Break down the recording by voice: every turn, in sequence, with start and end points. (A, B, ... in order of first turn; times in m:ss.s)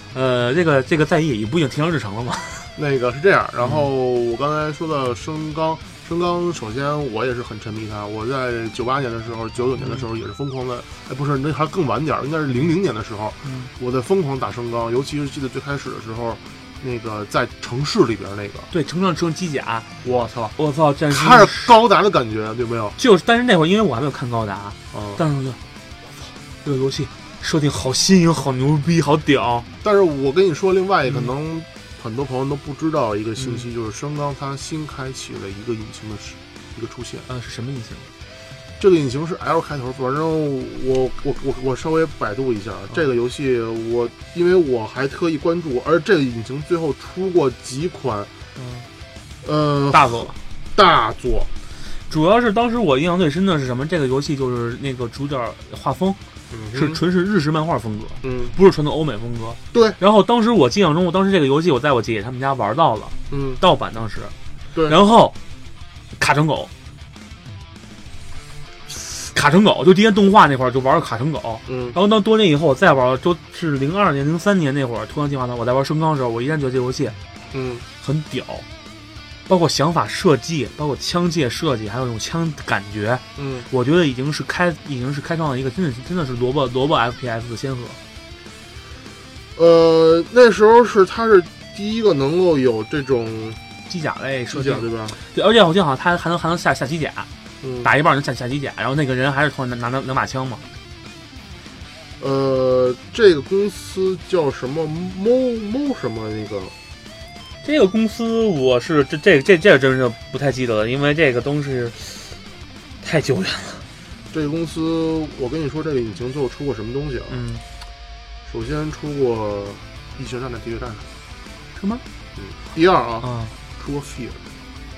0:00.1-0:02.7 A
0:02.8-0:18.7 B
0:13.4-0:13.7 A
0:18.7-0:19.9 A
0:20.0-0:20.5 B
0:20.6-0:21.7 A
0:21.1-0:23.0 B
0:23.0-0:29.7 A
0:24.9-0:25.2 B
0:29.8-0:37.3 B
0:33.4-0:33.6 A
0:37.3-0:38.1 A
0:38.8-0:48.3 B
0:48.6-0:48.9 A
0:49.4-0:51.5 B
0:49.9-0:50.4 A
0:52.1-0:56.2 A
0:56.5-0:57.0 B
0:56.7-1:04.3 A
0:58.2-0:58.6 B
0:59.7-1:00.0 B
1:03.3-1:03.6 B
1:04.9-1:05.4 A
1:06.2-1:06.7 A
1:09.0-1:17.2 A
1:11.7-1:12.0 B
1:17.5-1:17.8 B
1:18.0-1:18.6 A
1:19.5-1:28.0 A
1:23.4-1:23.7 B
1:29.5-1:33.6 B
1:33.9-1:37.3 A
1:34.5-1:35.2 B
1:37.6-1:37.9 B
1:37.8-1:40.6 A
1:42.2-1:46.7 B
1:47.6-1:52.4 A
1:53.0-1:53.8 A
1:54.3-1:57.4 B
1:57.3-1:57.6 A
1:58.5-2:01.1 B
2:01.8-2:02.0 A
2:02.4-2:04.4 B
2:03.2-2:03.5 A